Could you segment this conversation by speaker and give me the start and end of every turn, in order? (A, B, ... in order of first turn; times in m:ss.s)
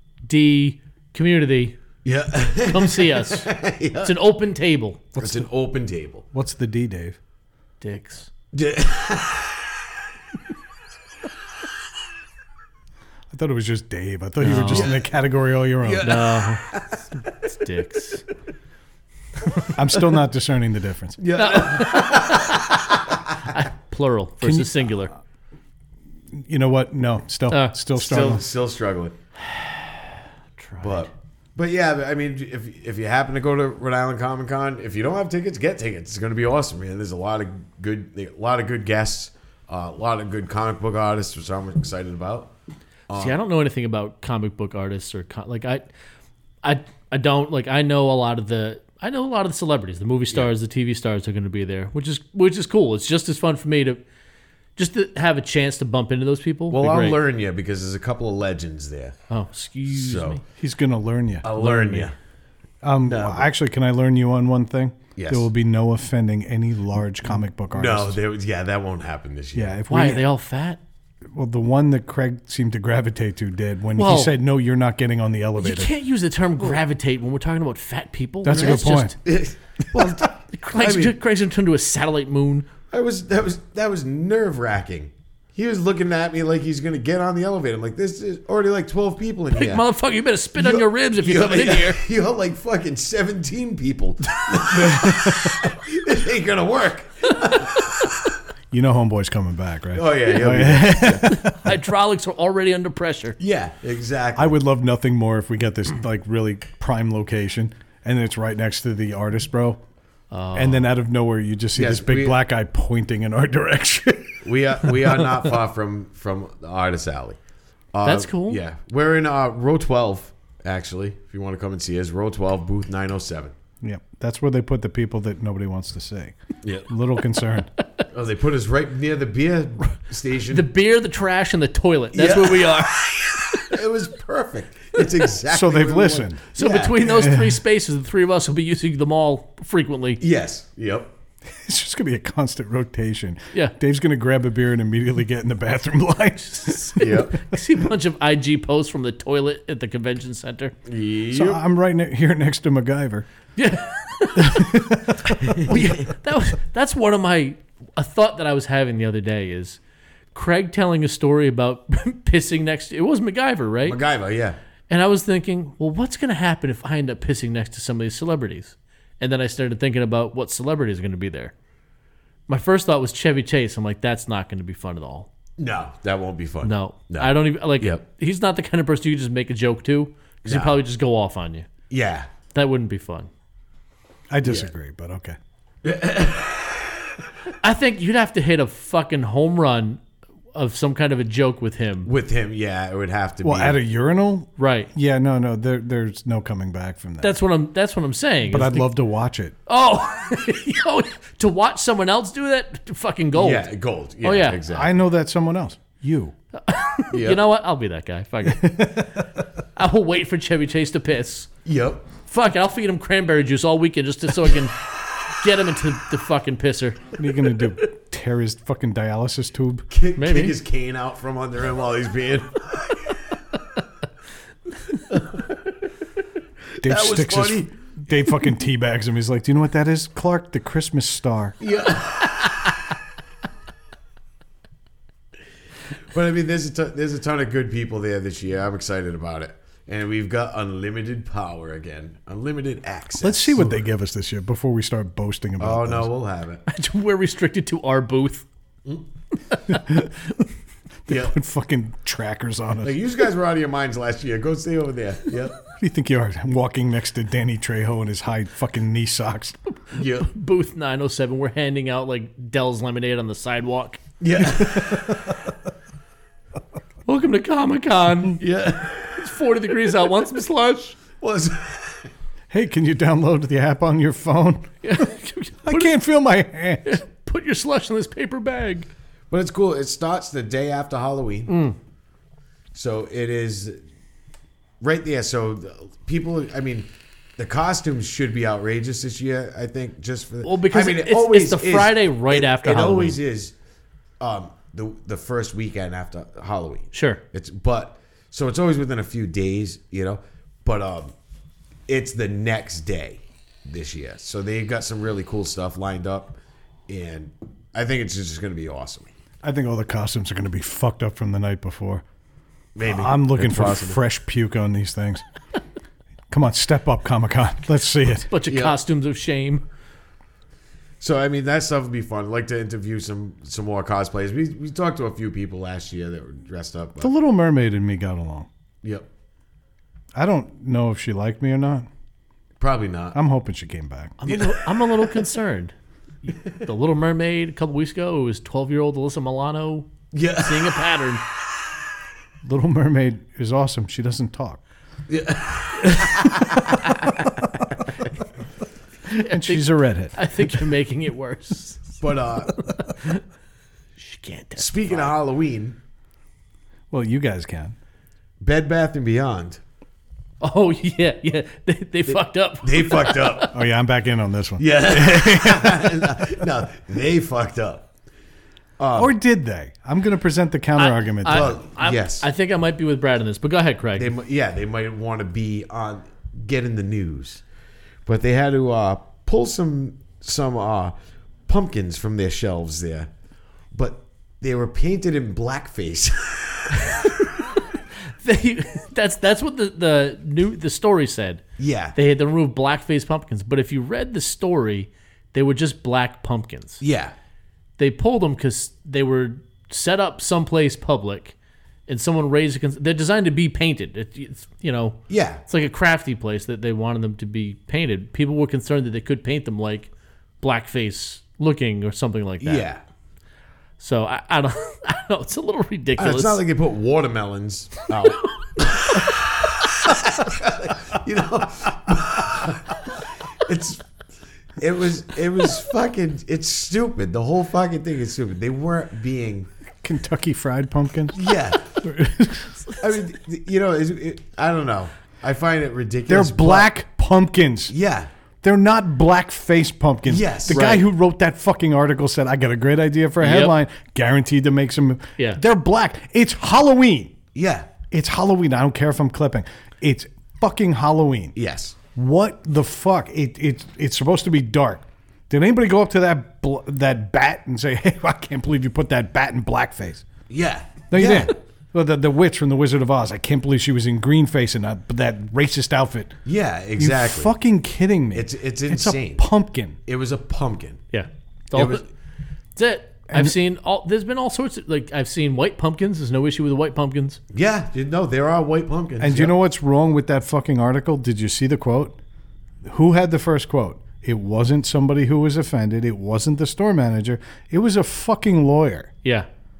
0:00.3-0:01.8 A
0:02.0-0:04.2 B
0:02.6-0:03.5 A
0:04.0-0:05.0 A
0:05.2-0:05.5 C
0:05.2-0:06.3 B
0:06.3-0:07.2 C
0:07.8-0:08.3 A
0:08.5-0:09.8 B
0:13.3-0:16.2 C
0:14.4-0:14.9 A
0:14.6-0:15.1 B
0:15.8-0:17.0 B
0:16.0-0:16.6 A
0:17.4-0:18.2 A
0:19.8-0:21.2 C
0:21.2-0:23.2 B
0:21.4-0:22.7 A
0:23.4-0:25.1 A
0:24.4-0:24.8 C
0:26.3-0:28.4 C
0:28.0-0:29.2 B
0:29.4-0:31.1 A
0:30.8-0:42.5 B
0:43.1-0:43.4 B
0:43.1-0:45.9 A
0:46.6-0:54.0 A
0:54.8-0:57.2 A
0:56.7-0:59.2 B
0:59.3-1:00.4 A
0:59.9-1:00.4 B
1:00.6-1:02.1 C
1:01.4-1:02.2 B
1:02.8-1:08.2 C
1:03.1-1:03.5 B
1:05.2-1:05.5 B
1:07.7-1:09.8 B
1:09.6-1:10.3 C
1:09.9-1:10.8 A
1:11.3-1:15.9 C
1:14.0-1:14.4 A
1:15.6-1:19.2 A
1:18.4-1:19.2 C
1:18.5-1:21.2 B
1:20.5-1:22.7 A
1:22.9-1:29.9 B
1:29.5-1:32.0 A
1:30.6-1:38.3 B
1:34.7-1:35.6 C
1:38.7-1:41.5 C
1:39.9-1:41.3 B
1:41.3-1:43.4 A
1:43.4-1:44.6 B
1:44.4-1:49.8 C
1:50.3-1:50.8 A
1:50.5-1:54.4 C
1:51.8-1:52.4 B
1:54.4-1:57.4 B
1:57.9-2:03.6 B
1:58.0-1:58.6 A
2:03.8-2:06.4 C
2:06.6-2:06.9 B
2:06.9-2:07.7 C
2:08.1-2:10.7 B
2:10.5-2:13.8 A
2:12.1-2:17.2 B
2:15.5-2:16.4 C
2:16.6-2:20.2 A
2:17.1-2:17.6 C
2:20.2-2:21.1 B
2:21.5-2:27.0 C
2:26.5-2:30.8 A
2:27.0-2:27.4 B
2:30.9-2:31.6 B
2:31.3-2:33.2 C
2:33.6-2:34.9 A
2:34.4-2:35.8 C
2:35.5-2:36.0 B
2:35.6-2:39.8 A
2:40.3-2:44.0 A
2:43.8-2:44.6 B
2:44.9-2:51.5 A
2:52.5-2:55.3 A
2:55.6-2:58.0 B
2:56.6-3:01.7 A
3:00.4-3:00.8 B
3:01.9-3:02.3 B
3:02.5-3:03.3 A
3:04.3-3:05.4 C
3:04.4-3:04.7 B
3:05.8-3:07.1 B
3:07.6-3:10.0 A
3:10.5-3:12.1 A
3:12.0-3:13.8 B
3:13.4-3:17.4 C
3:14.6-3:14.9 A
3:17.2-3:18.9 A
3:18.5-3:19.6 C
3:19.7-3:23.7 A
3:23.3-3:25.0 B
3:24.2-3:24.6 A
3:24.7-3:26.4 C
3:26.6-3:29.0 A
3:27.1-3:27.4 B
3:28.5-3:29.2 C
3:29.8-3:31.5 A
3:31.6-3:32.1 B
3:32.2-3:37.2 A
3:37.2-3:39.9 C
3:39.9-3:43.4 B
3:40.2-3:40.6 A
3:45.1-3:45.4 B
3:46.8-3:47.7 B
3:46.8-3:51.6 C
3:51.6-3:52.8 B
3:56.1-4:03.8 B
4:03.2-4:06.1 C
4:05.6-4:06.6 B
4:06.7-4:08.5 A
4:09.7-4:10.1 C
4:11.1-4:11.3 B
4:11.1-4:13.0 C
4:12.8-4:15.6 B
4:15.7-4:19.6 C
4:19.9-4:20.3 B
4:20.1-4:24.0 A
4:24.2-4:25.3 B
4:27.1-4:28.4 A
4:28.4-4:29.4 B
4:29.2-4:31.0 A
4:31.2-4:32.1 B
4:32.5-4:35.0 C
4:34.8-4:35.9 A
4:35.6-4:37.0 C
4:36.8-4:38.9 A
4:39.3-4:41.5 B
4:41.5-4:41.8 A
4:42.7-4:43.8 B
4:44.8-4:53.5 B
4:50.4-4:53.2 A
4:54.2-5:01.1 B
4:56.9-4:57.2 A
5:01.9-5:09.1 B
5:09.4-5:12.0 C
5:12.8-5:14.0 B
5:12.8-5:15.2 C
5:16.3-5:18.3 C
5:18.3-5:19.6 A
5:18.5-5:18.8 B
5:21.0-5:27.1 B
5:27.0-5:28.5 C
5:30.2-5:31.9 C
5:32.6-5:33.2 B
5:33.1-5:34.2 C
5:34.2-5:41.2 A
5:34.3-5:35.1 B
5:40.1-5:40.8 B
5:42.4-5:44.6 C
5:45.1-5:47.0 B
5:49.1-5:50.6 C
5:49.1-5:52.0 A
5:52.0-5:52.6 B
5:52.6-5:53.2 A
5:54.0-5:55.1 A
5:54.6-5:55.8 B
5:56.9-5:57.8 C
5:58.4-5:59.6 B
6:00.4-6:03.5 A
6:02.1-6:03.5 B
6:03.5-6:06.5 C
6:04.6-6:07.9 B
6:08.8-6:09.1 B
6:09.0-6:11.6 C
6:10.8-6:14.1 A
6:11.3-6:12.3 B
6:14.0-6:17.4 B
6:18.1-6:21.0 B
6:21.5-6:23.1 B
6:23.7-6:27.2 B
6:28.2-6:31.4 A
6:31.6-6:32.0 B
6:32.0-6:36.8 A
6:36.8-6:37.1 B
6:37.8-6:41.4 A
6:41.9-6:49.9 A
6:45.1-6:45.4 B
6:50.4-6:52.7 A
6:52.4-6:52.8 B
6:53.8-6:56.4 A
6:56.0-7:03.8 B
7:04.6-7:09.5 B
7:09.8-7:12.6 C
7:11.1-7:11.7 B
7:12.8-7:16.7 B
7:16.1-7:17.7 C
7:17.7-7:18.1 B
7:18.4-7:27.2 C
7:20.1-7:20.8 B
7:20.5-7:20.8 A
7:23.2-7:23.5 A
7:27.4-7:27.7 B
7:27.9-7:31.3 C
7:31.4-7:31.8 B
7:32.0-7:40.1 C
7:40.3-7:41.3 B
7:40.9-7:46.2 C
7:46.3-7:47.3 B
7:46.8-7:49.8 C
7:48.1-7:49.2 B
7:49.9-7:50.8 B
7:50.9-7:51.8 A
7:51.5-7:51.8 B
7:52.6-7:57.2 A
7:53.1-7:53.4 C
7:57.3-7:59.4 B
7:59.0-8:02.0 C
8:02.6-8:08.9 C